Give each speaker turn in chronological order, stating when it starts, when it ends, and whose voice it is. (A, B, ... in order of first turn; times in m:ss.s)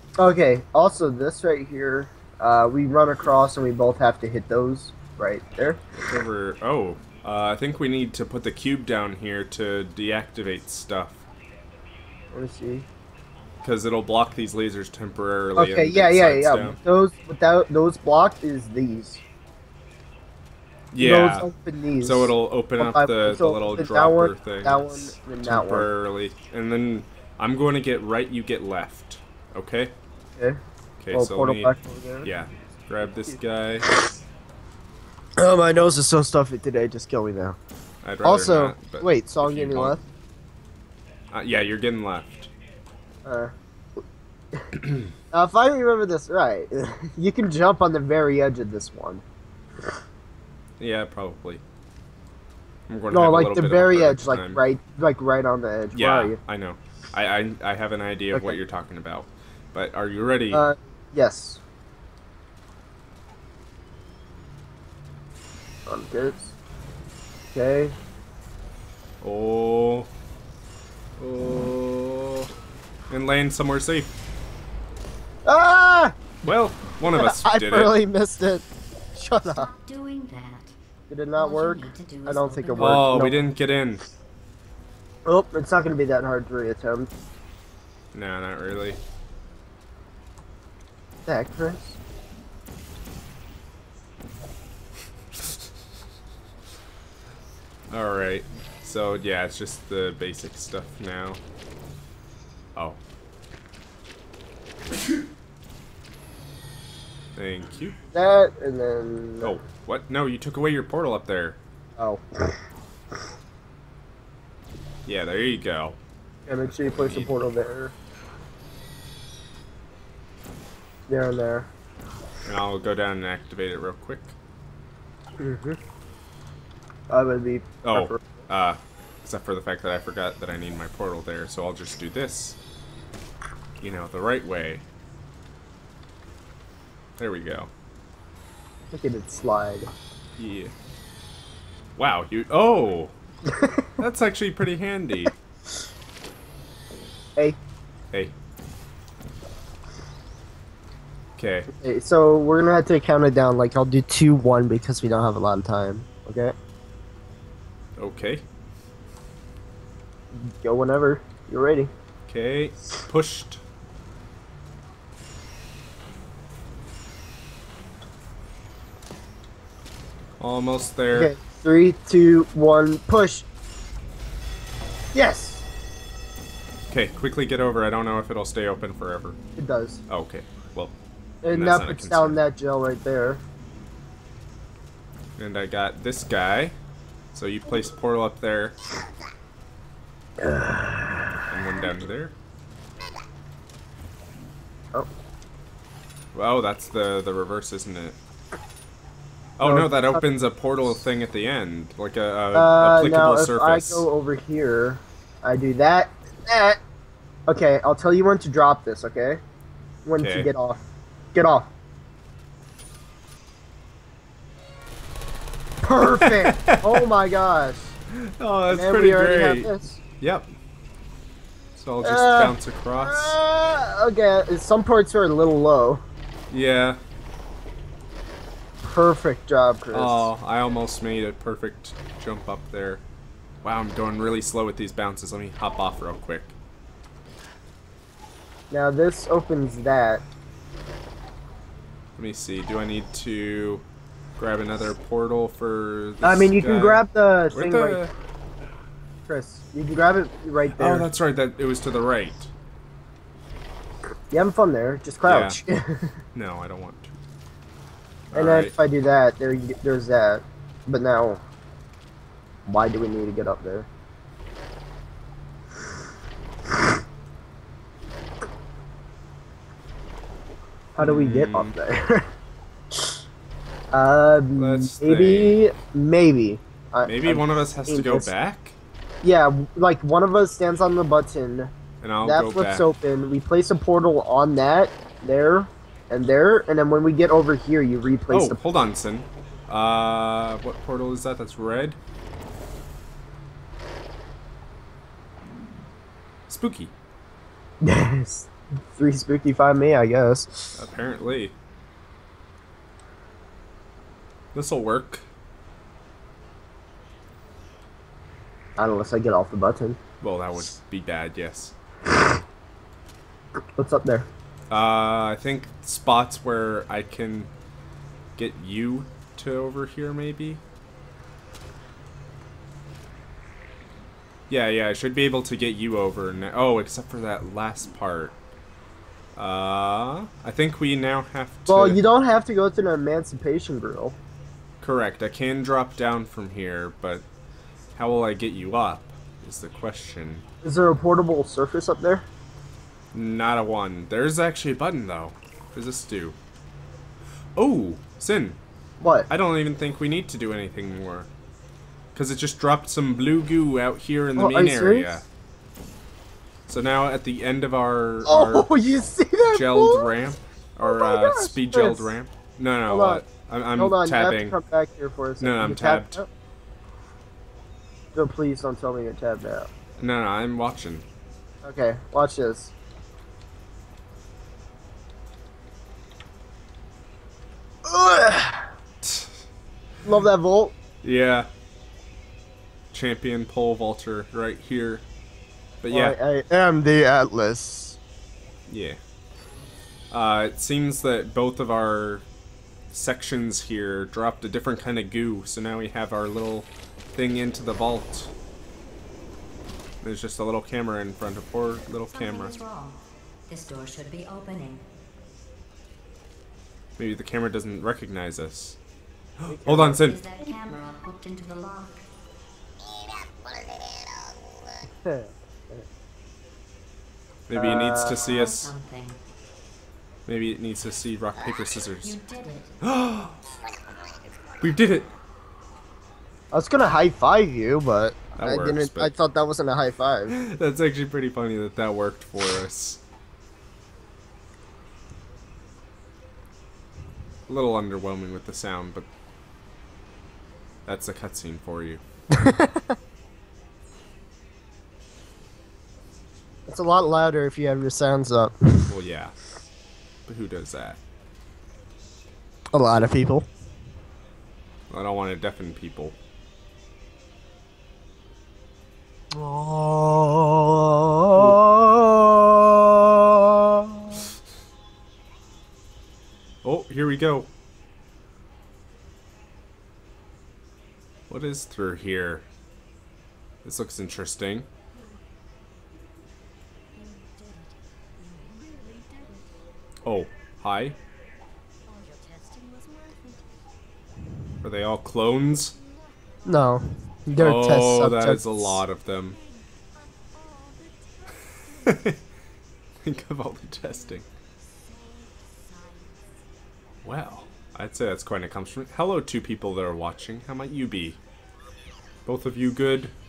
0:00.2-0:05.8 A
0:06.0-0:11.2 B
0:12.3-0:12.9 A
0:13.6-0:16.8 B
0:15.5-0:19.2 A
0:20.9-0:21.5 B
0:21.0-0:25.9 A
0:22.0-0:29.9 B
0:31.0-0:33.9 B
0:31.1-0:32.3 A
0:35.4-0:37.6 A
0:38.0-0:40.0 B
0:38.2-0:40.0 A
0:41.3-0:42.5 B
0:43.2-0:43.5 A
0:45.3-0:49.2 A
0:50.8-0:51.6 B
0:52.9-0:54.6 B
0:53.1-0:56.4 A
0:55.9-1:00.6 B
0:58.3-0:58.6 A
1:00.5-1:01.6 A
1:05.9-1:06.5 A
1:07.5-1:07.9 A
1:09.2-1:10.1 B
1:11.2-1:12.5 B
1:13.1-1:14.1 B
1:15.4-1:16.4 A
1:16.4-1:18.0 B
1:17.0-1:19.7 A
1:19.4-1:20.7 C
1:21.1-1:23.4 A
1:21.3-1:23.2 C
1:22.8-1:24.0 B
1:25.2-1:27.1 A
1:28.1-1:29.0 B
1:31.2-1:32.0 A
1:37.9-1:41.4 B
1:47.4-1:48.0 B
1:48.1-1:49.5 A
1:49.4-1:51.6 B
1:52.0-1:52.4 A
1:55.0-1:56.0 B
1:56.5-1:57.9 A
1:56.8-1:57.3 B
2:01.1-2:01.7 A
2:02.4-2:04.4 B
2:05.4-2:05.8 A
2:07.1-2:08.2 A
2:07.8-2:12.6 B
2:13.8-2:14.8 B
2:17.2-2:17.7 B
2:18.9-2:19.9 A
2:20.4-2:20.7 B
2:22.0-2:23.1 B
2:23.5-2:23.9 A
2:24.0-2:25.3 B
2:31.4-2:31.7 B
2:31.7-2:36.5 A
2:38.0-2:38.4 B
2:40.3-2:41.9 A
2:42.3-2:43.6 B
2:50.4-2:51.3 B
2:51.1-2:53.5 A
2:55.1-2:55.6 A
2:56.9-2:59.4 B
2:59.6-3:00.0 A
3:00.1-3:00.9 B
3:01.4-3:03.4 A
3:01.5-3:02.4 B
3:05.4-3:06.7 B
3:07.3-3:08.8 B
3:10.4-3:11.2 A
3:11.5-3:12.3 B
3:16.3-3:18.2 B
3:19.6-3:24.1 B
3:19.6-3:20.2 A
3:22.5-3:26.8 A
3:27.5-3:29.4 A
3:30.0-3:31.7 A
3:30.2-3:30.5 B
3:35.8-3:38.0 A
3:36.3-3:36.8 B
3:38.2-3:40.5 B
3:38.7-3:40.0 A
3:41.8-3:43.4 B
3:42.0-3:46.0 A
3:46.5-3:47.0 B
3:48.8-3:50.3 A
3:49.9-3:53.0 B
3:53.6-3:56.5 B
3:58.7-4:00.2 A
4:02.2-4:03.8 B
4:04.4-4:08.1 B
4:06.2-4:08.0 A
4:09.3-4:11.1 A
4:10.7-4:12.5 B
4:14.3-4:16.2 A
4:15.2-4:15.6 B
4:16.3-4:17.2 B
4:18.3-4:18.8 B
4:18.3-4:21.4 A
4:22.6-4:23.9 A
4:30.9-4:32.3 A
4:31.0-4:31.7 B
4:33.9-4:38.3 A
4:34.6-4:35.6 B
4:37.0-4:38.8 B
4:39.2-4:48.6 A
4:42.0-4:42.9 B
4:48.3-4:52.0 B
4:56.5-4:56.9 B
4:57.8-5:00.8 A
5:00.7-5:01.6 B
5:04.5-5:05.2 B
5:08.8-5:10.0 A
5:10.2-5:11.7 B
5:13.8-5:14.3 A
5:14.7-5:17.5 B
5:18.4-5:20.6 B
5:24.5-5:28.4 B
5:29.4-5:32.0 B
5:31.7-5:34.2 A
5:34.8-5:37.2 B
5:38.0-5:40.4 B
5:40.6-5:42.2 A
5:43.1-5:46.4 B
5:47.6-5:48.6 B
5:49.0-5:49.3 A
5:49.3-5:51.3 B
5:52.1-5:55.2 B
5:54.4-5:55.2 A
5:56.7-5:58.7 B
5:58.2-6:00.3 A
5:59.5-6:04.6 B
6:00.8-6:02.1 A
6:02.9-6:03.2 A
6:03.8-6:06.3 A
6:05.4-6:06.2 B
6:08.1-6:09.7 A
6:10.0-6:11.0 B
6:11.6-6:12.7 A
6:17.8-6:18.7 A
6:19.0-6:19.4 B
6:20.0-6:20.8 A
6:21.0-6:21.5 B
6:22.9-6:25.0 B
6:25.8-6:28.0 A
6:25.8-6:26.2 B
6:28.7-6:29.0 B
6:30.1-6:32.3 B
6:32.9-6:38.3 B
6:40.0-6:42.6 B
6:42.1-6:44.8 C
6:47.0-6:48.8 B
6:49.4-6:50.2 B
6:49.5-6:50.0 A
6:49.8-6:52.0 C
6:55.0-6:55.3 A
6:57.5-6:58.7 B
6:57.5-6:58.3 A
6:58.1-6:59.2 C
7:00.2-7:02.2 B
7:02.0-7:02.8 C
7:02.8-7:03.4 B
7:04.6-7:05.1 B
7:06.5-7:10.3 A
7:08.4-7:09.1 B
7:10.3-7:13.0 B
7:17.5-7:19.1 B
7:20.8-7:22.0 B
7:22.3-7:22.9 A
7:26.7-7:28.9 A
7:28.9-7:29.5 B
7:30.3-7:31.0 B
7:32.7-7:33.5 A
7:34.9-7:36.2 B
7:39.3-7:44.2 A
7:46.6-7:47.5 B
7:51.3-7:52.4 B
7:53.6-7:54.7 B
7:57.0-7:59.4 C
8:00.0-8:01.0 B
8:01.9-8:03.4 C
8:04.6-8:05.7 B
8:06.4-8:08.8 A
8:07.3-8:09.4 B
8:11.8-8:12.2 B
8:13.0-8:14.2 B
8:15.7-8:16.1 C
8:17.0-8:21.2 B
8:22.2-8:23.1 B